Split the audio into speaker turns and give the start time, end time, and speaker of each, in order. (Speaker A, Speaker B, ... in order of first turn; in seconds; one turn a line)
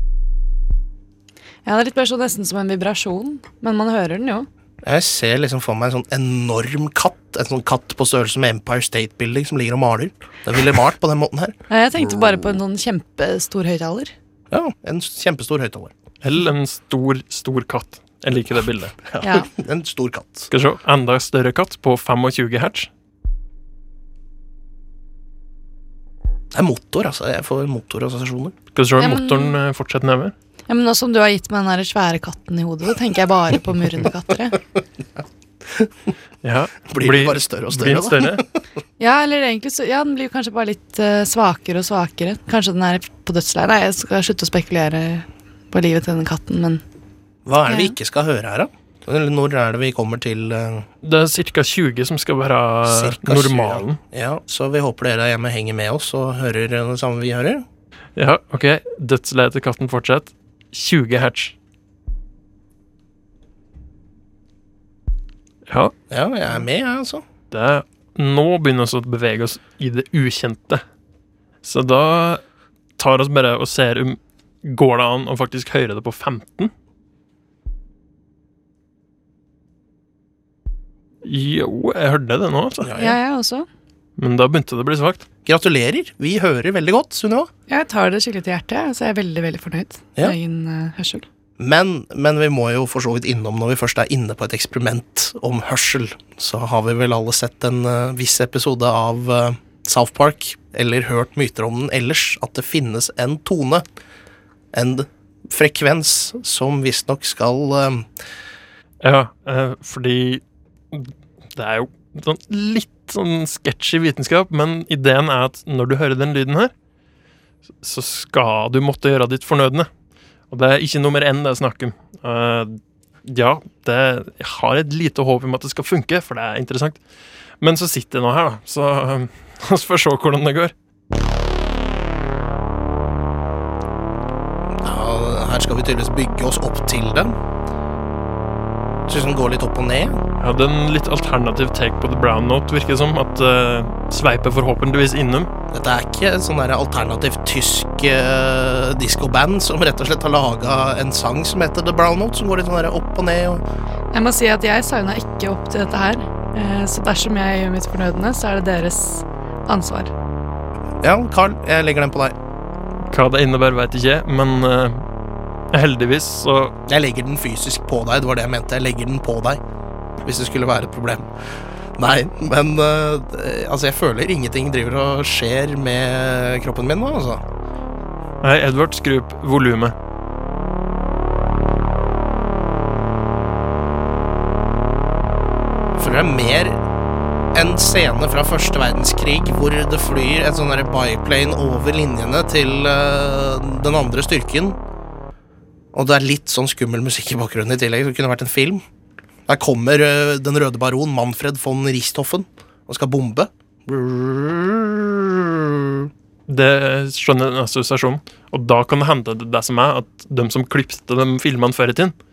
Speaker A: 1.6-4.5
Speaker B: 4.8-11.6
Speaker A: 11.7-14.1
Speaker B: 14.5-15.9
Speaker C: 16.2-19.0
Speaker B: 19.1-20.5
Speaker A: 19.2-19.5
Speaker C: 20.5-22.9
Speaker B: 26.5-28.6
Speaker C: 28.8-30.3
Speaker A: 29.0-29.6
Speaker A: 30.7-34.6
Speaker C: 36.4-38.4
Speaker B: 36.9-38.4
Speaker A: 39.0-46.8
Speaker B: 47.5-50.9
Speaker A: 47.7-47.9
Speaker C: 51.0-54.0
Speaker B: 52.9-57.6
Speaker C: 58.1-61.5
Speaker C: 65.7-65.9
Speaker B: 66.1-67.2
Speaker C: 67.5-70.8
Speaker C: 71.6-72.4
Speaker C: 73.0-76.7
Speaker C: 81.2-82.9
Speaker B: 82.9-83.2
Speaker A: 82.9-83.7
Speaker C: 84.2-85.2
Speaker B: 85.4-87.5
Speaker A: 87.7-91.3
Speaker B: 91.6-103.8
Speaker B: 104.7-108.1
Speaker C: 109.0-116.7
Speaker C: 117.8-119.9
Speaker C: 120.5-127.0
Speaker C: 127.6-130.7
Speaker B: 134.8-137.3
Speaker B: 139.1-140.2
Speaker C: 140.4-145.5
Speaker B: 145.7-153.6
Speaker A: 154.1-160.1
Speaker B: 161.0-162.3
Speaker C: 163.1-165.1
Speaker C: 165.7-166.8
Speaker B: 166.9-169.6
Speaker B: 170.2-171.3
Speaker B: 172.0-177.4
Speaker C: 178.4-179.9
Speaker B: 186.0-186.8
Speaker B: 187.5-194.8
Speaker B: 195.9-198.8
Speaker B: 199.5-206.1
Speaker C: 206.5-212.1